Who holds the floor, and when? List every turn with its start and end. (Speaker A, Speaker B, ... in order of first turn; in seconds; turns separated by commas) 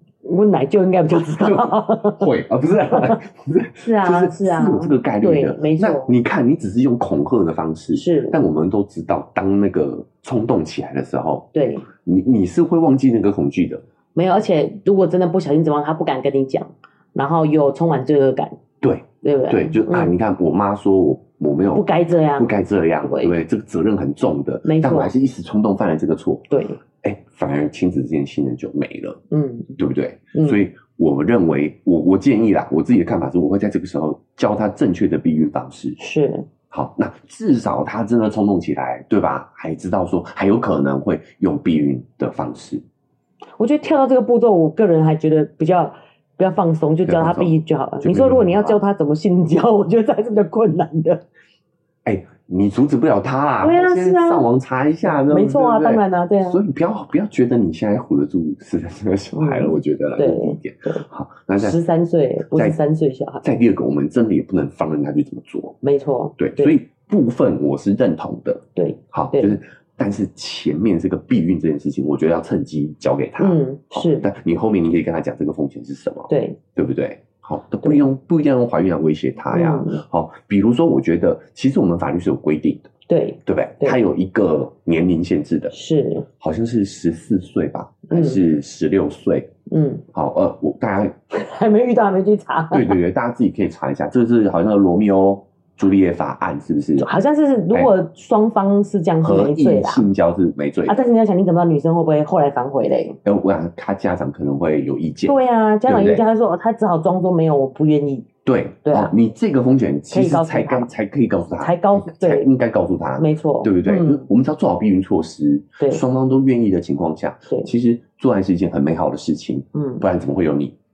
Speaker A: 0.2-2.3, Speaker B: 1.3-13.8, Speaker A: 2.9-3.2, Speaker A: 3.8-6.1, Speaker A: 7.9-8.4, Speaker A: 11.5-11.9, Speaker A: 14.1-18.6, Speaker B: 18.8-26.5, Speaker A: 19.2-20.1, Speaker A: 21.7-22.5, Speaker A: 23.0-23.3, Speaker A: 24.6-25.1, Speaker A: 26.5-26.8, Speaker B: 27.0-29.2, Speaker A: 29.3-29.8, Speaker B: 29.8-36.0, Speaker A: 30.3-30.6, Speaker A: 36.0-36.5, Speaker B: 36.7-42.8, Speaker A: 43.6-51.2, Speaker B: 47.0-48.8, Speaker B: 52.0-61.8, Speaker A: 53.6-54.5, Speaker A: 55.2-56.6, Speaker A: 59.3-61.0, Speaker A: 61.6-63.5, Speaker B: 62.5-62.8, Speaker B: 63.4-65.8, Speaker A: 65.8-66.7, Speaker B: 66.4-82.9, Speaker A: 68.8-69.5, Speaker A: 73.4-74.3, Speaker A: 76.3-76.6, Speaker A: 79.5-80.0, Speaker A: 83.1-84.0, Speaker B: 83.4-85.7, Speaker A: 85.7-86.3, Speaker B: 86.4-89.5, Speaker A: 88.1-88.4, Speaker A: 89.7-90.0, Speaker B: 90.1-91.2, Speaker A: 91.3-93.0, Speaker B: 92.7-97.1, Speaker A: 97.0-100.1, Speaker B: 99.2-101.0, Speaker A: 100.8-103.2, Speaker B: 103.2-106.2, Speaker A: 105.2-108.3, Speaker B: 108.4-120.8, Speaker A: 108.8-109.1, Speaker A: 110.1-110.9, Speaker A: 111.6-112.5, Speaker A: 113.2-114.2, Speaker A: 119.7-120.0